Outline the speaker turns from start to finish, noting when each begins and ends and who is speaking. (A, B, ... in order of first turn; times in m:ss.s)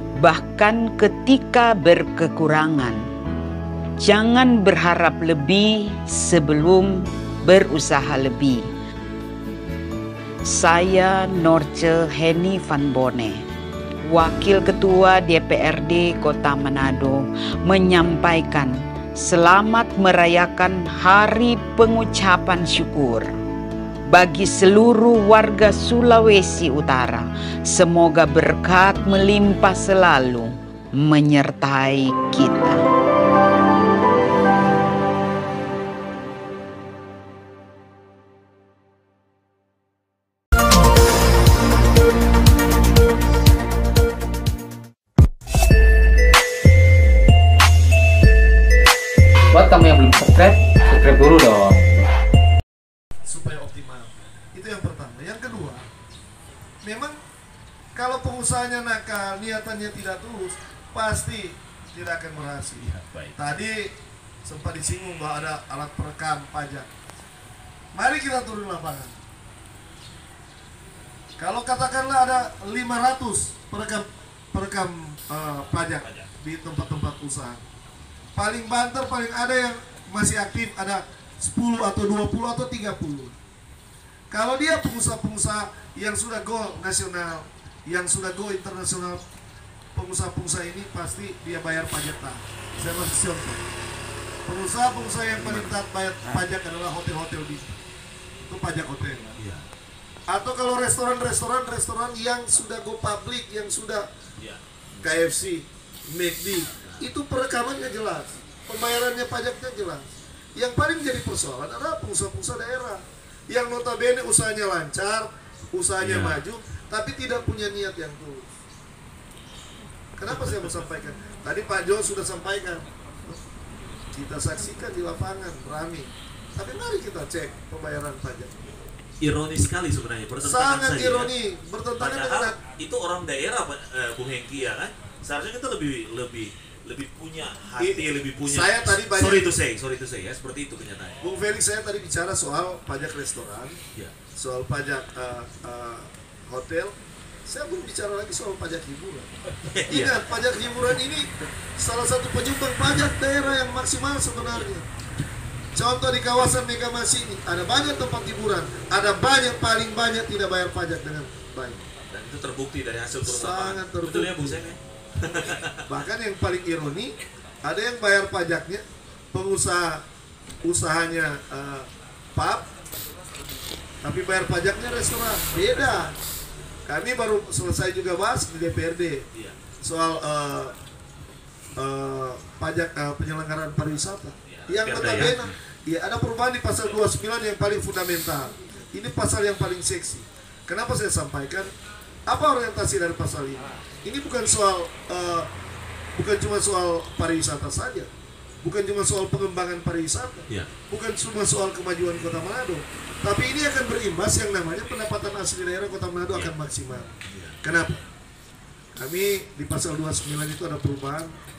0:00.2-0:03.0 A
0:04.0-0:08.7 A
0:10.4-0:13.4 A
0:14.1-0:23.3 A
0:24.1-0:32.8 A
0:49.5-0:52.0 B
0:53.2-0:55.8 C
0:56.8-0:57.2 C
0:57.9-1:06.9 C
1:02.8-1:03.4 D
1:07.9-1:09.2 C
1:11.4-1:17.6 C
1:16.0-1:16.3 D
1:18.3-1:23.3 C
1:24.3-1:29.2 C
1:29.9-1:33.6 C
1:34.4-1:37.8 C
1:35.4-1:35.7 D
1:38.4-1:39.3 C
1:39.4-1:39.6 D
1:40.3-1:44.1 C
1:44.4-1:45.2 D
1:45.0-1:58.5 C
1:56.0-1:56.4 D
2:00.2-2:03.4 C
2:04.1-2:08.5 C
2:09.2-2:11.3 D
2:10.4-2:12.6 C
2:12.0-2:21.2 D
2:17.8-2:19.6 C
2:21.2-2:23.8 C
2:24.3-2:26.9 C
2:27.5-2:29.3 C
2:29.6-2:30.3 D
2:29.9-2:34.9 C
2:35.7-2:41.8 C
2:42.1-2:46.0 D
2:43.2-2:44.6 C
2:45.8-2:50.0 C
2:50.6-2:52.6 C
2:54.0-2:56.1 C
2:55.6-2:56.1 D
2:56.8-2:59.2 C
2:59.8-3:00.7 C
3:01.8-3:11.7 C
3:04.4-3:05.6 D
3:12.3-3:15.5 C
3:16.1-3:18.1 C
3:18.6-3:28.0 C
3:27.2-3:27.7 D
3:28.9-3:31.4 C